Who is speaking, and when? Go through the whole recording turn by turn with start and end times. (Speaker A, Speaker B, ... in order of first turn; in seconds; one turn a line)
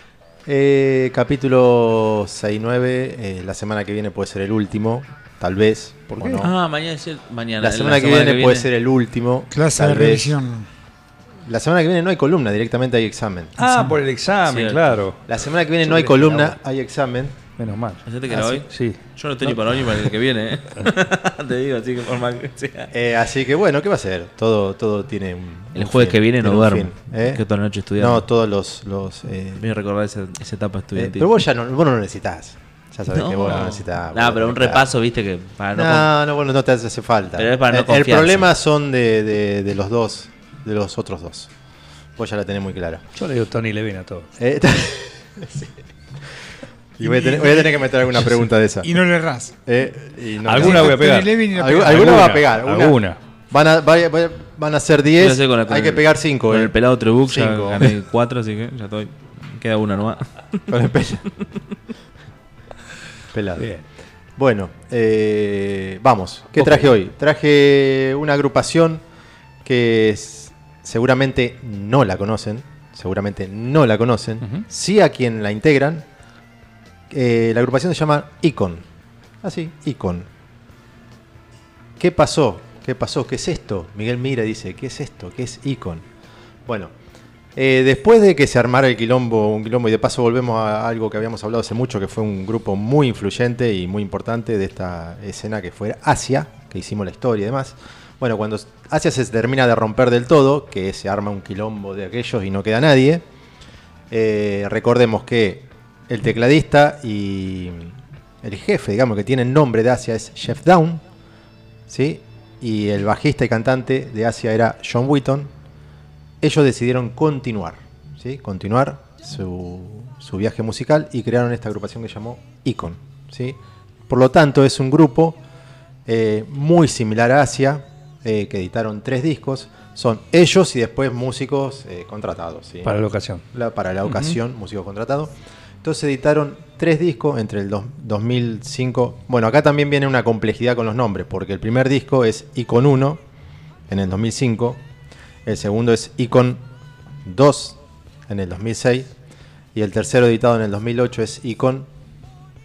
Speaker A: 0.5-6.5
Speaker B: 6.2-6.4
Speaker C: 6.4-8.7
Speaker A: 7.6-10.4
Speaker D: 9.5-10.7
Speaker A: 11.5-13.6
Speaker B: 13.6-15.2
Speaker C: 14.5-15.0
Speaker A: 15.3-17.4
Speaker B: 15.8-16.6
Speaker B: 17.6-19.0
Speaker C: 18.1-22.9
Speaker A: 22.9-27.4
Speaker C: 25.8-28.3
Speaker A: 28.0-29.6
Speaker C: 29.6-31.3
Speaker A: 30.9-34.9
Speaker C: 33.1-36.1
Speaker A: 35.7-41.5
Speaker C: 37.4-38.5
Speaker A: 42.2-43.0
Speaker B: 43.2-44.3
Speaker A: 44.4-45.7
Speaker A: 47.0-48.9
Speaker D: 47.0-48.0
Speaker D: 48.8-49.5
Speaker A: 49.7-58.0
Speaker B: 50.5-53.2
Speaker D: 50.6-52.2
Speaker C: 55.2-60.3
Speaker A: 60.7-61.3
Speaker A: 63.3-63.7
Speaker A: 64.4-69.0
Speaker B: 66.6-66.9
Speaker A: 69.6-76.1
Speaker A: 77.1-78.9
Speaker A: 79.4-80.3
Speaker A: 82.0-86.1
Speaker A: 86.7-86.9
Speaker A: 87.6-103.2
Speaker A: 104.1-111.0
Speaker A: 111.9-115.5
Speaker A: 116.4-125.4
Speaker A: 126.1-133.0
Speaker B: 132.8-133.4
Speaker A: 133.5-143.2
Speaker B: 134.1-134.4
Speaker A: 143.9-144.8
Speaker A: 145.5-146.6
Speaker A: 147.2-149.1
Speaker A: 149.7-151.9